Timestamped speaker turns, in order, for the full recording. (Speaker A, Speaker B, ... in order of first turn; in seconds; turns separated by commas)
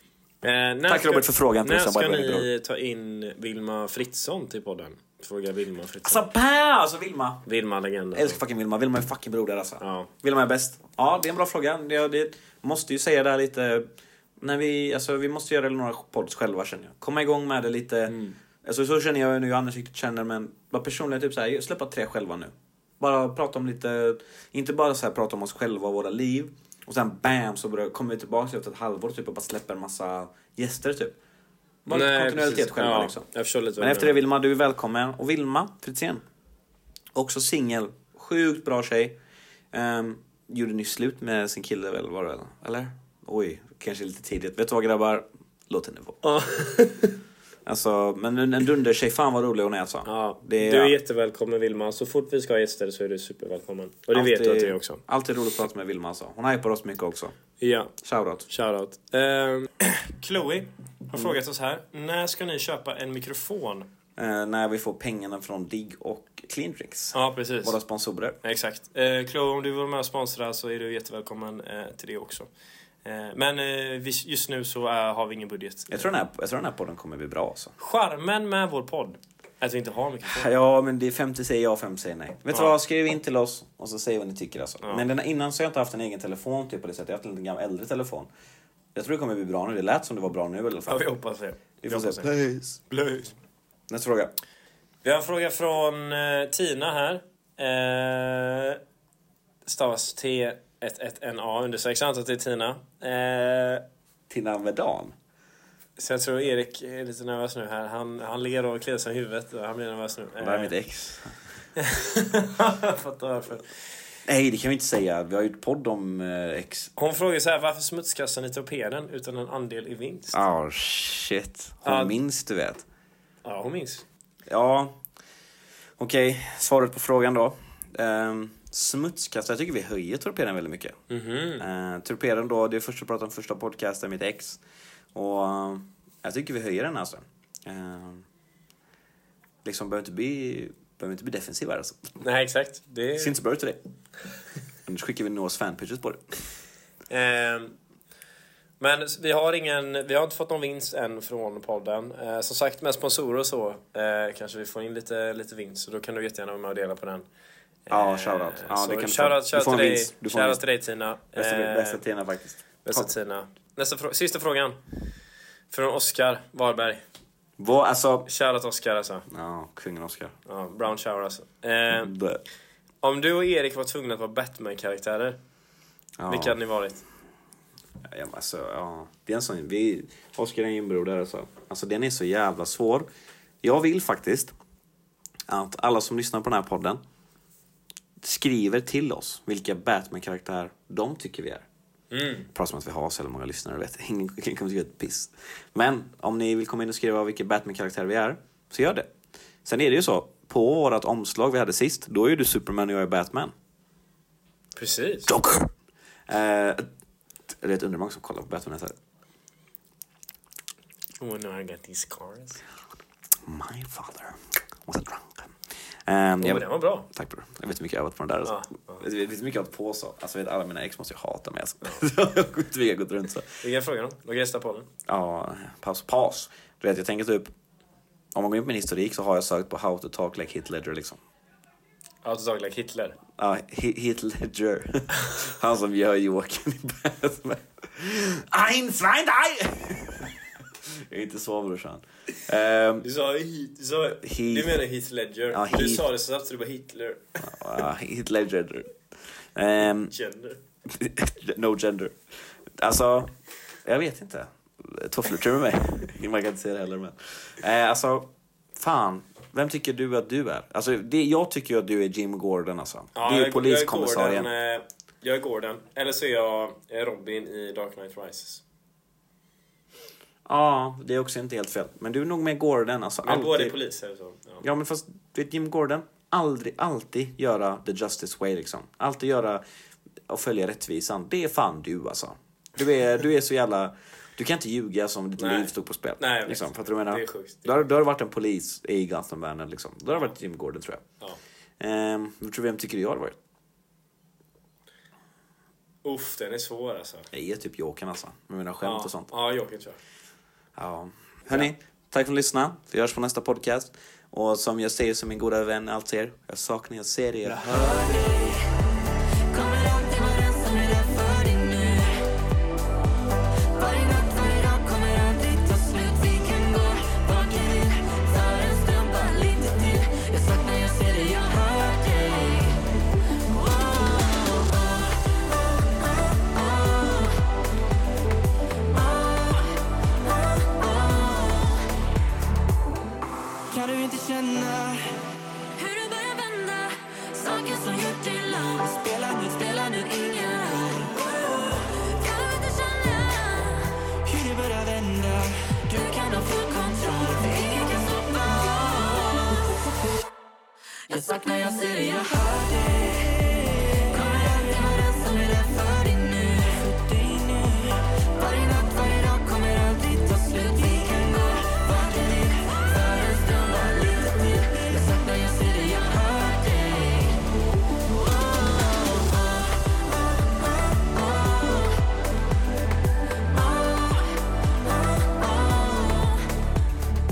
Speaker A: 0.4-6.2, Speaker B: 0.9-2.5, Speaker B: 6.0-7.4, Speaker A: 7.4-8.4, Speaker B: 8.1-13.9, Speaker A: 9.8-10.1, Speaker B: 14.4-31.1, Speaker A: 18.1-18.4, Speaker B: 31.9-33.2, Speaker A: 31.9-34.2, Speaker B: 33.8-36.2, Speaker B: 37.1-39.1, Speaker B: 39.7-46.2, Speaker A: 46.2-47.1, Speaker B: 47.6-50.9, Speaker A: 50.0-55.0, Speaker B: 54.1-57.3, Speaker A: 57.6-57.9, Speaker B: 58.0-58.5, Speaker A: 58.5-63.9, Speaker B: 64.2-68.4, Speaker A: 67.1-67.8, Speaker A: 68.4-72.5, Speaker A: 73.0-76.1, Speaker B: 75.9-77.7, Speaker A: 77.8-80.5, Speaker B: 80.3-88.3, Speaker B: 88.9-91.0, Speaker A: 90.9-92.3, Speaker B: 91.8-92.8, Speaker A: 92.9-93.3, Speaker B: 93.9-94.3, Speaker A: 95.0-98.8, Speaker A: 99.6-103.8, Speaker B: 104.3-105.1, Speaker A: 106.0-110.7, Speaker B: 110.4-111.3, Speaker A: 111.8-113.6, Speaker B: 114.2-116.9, Speaker A: 117.0-120.4, Speaker B: 120.3-122.8, Speaker A: 121.8-122.2, Speaker A: 123.4-124.0, Speaker B: 124.5-124.9, Speaker B: 126.0-131.0, Speaker A: 131.1-131.7, Speaker B: 131.6-134.6, Speaker B: 135.1-138.2, Speaker B: 139.6-142.0, Speaker A: 142.2-143.3, Speaker B: 143.2-143.8, Speaker B: 144.8-146.2, Speaker A: 147.1-147.8, Speaker A: 148.8-157.2, Speaker A: 157.9-162.0, Speaker B: 157.9-160.6, Speaker B: 161.3-163.1, Speaker A: 162.8-164.8, Speaker A: 165.7-167.0, Speaker B: 167.6-168.3, Speaker A: 168.2-169.2, Speaker B: 169.3-170.3, Speaker A: 170.4-172.1, Speaker B: 172.0-172.4, Speaker A: 173.0-175.4, Speaker B: 176.2-176.6, Speaker A: 176.3-177.0, Speaker B: 178.1-183.1, Speaker B: 183.6-184.5, Speaker B: 185.5-187.0, Speaker B: 188.2-191.7, Speaker A: 192.1-192.5, Speaker B: 192.5-199.1, Speaker B: 199.6-203.5, Speaker A: 204.8-205.3, Speaker B: 205.3-205.7, Speaker B: 206.3-206.8, Speaker B: 207.5-208.9, Speaker A: 211.2-212.6, Speaker B: 213.4-223.6, Speaker A: 216.4-217.1, Speaker A: 218.4-219.0, Speaker A: 223.6-224.9, Speaker B: 225.1-227.5, Speaker B: 228.3-231.2, Speaker A: 232.2-233.2, Speaker B: 233.4-243.1, Speaker A: 243.0-247.4, Speaker B: 244.2-244.8, Speaker B: 245.5-246.1, Speaker B: 247.4-248.9, Speaker B: 249.5-250.1, Speaker A: 250.1-250.6, Speaker B: 250.9-252.2, Speaker B: 252.8-253.3, Speaker B: 253.8-264.5, Speaker A: 263.1-268.6, Speaker B: 270.4-273.8, Speaker A: 273.2-274.6, Speaker B: 274.6-279.6, Speaker B: 280.3-291.0, Speaker A: 285.4-287.7, Speaker B: 291.8-293.4, Speaker A: 296.0-297.3, Speaker B: 297.3-299.3, Speaker A: 298.8-300.0, Speaker B: 300.8-307.7, Speaker C: 307.5-308.7, Speaker C: 309.5-312.3, Speaker C: 313.7-322.9, Speaker C: 323.4-327.4, Speaker C: 328.9-331.9, Speaker C: 333.7-349.7, Speaker C: 351.1-367.4, Speaker C: 368.0-372.0, Speaker C: 373.5-376.5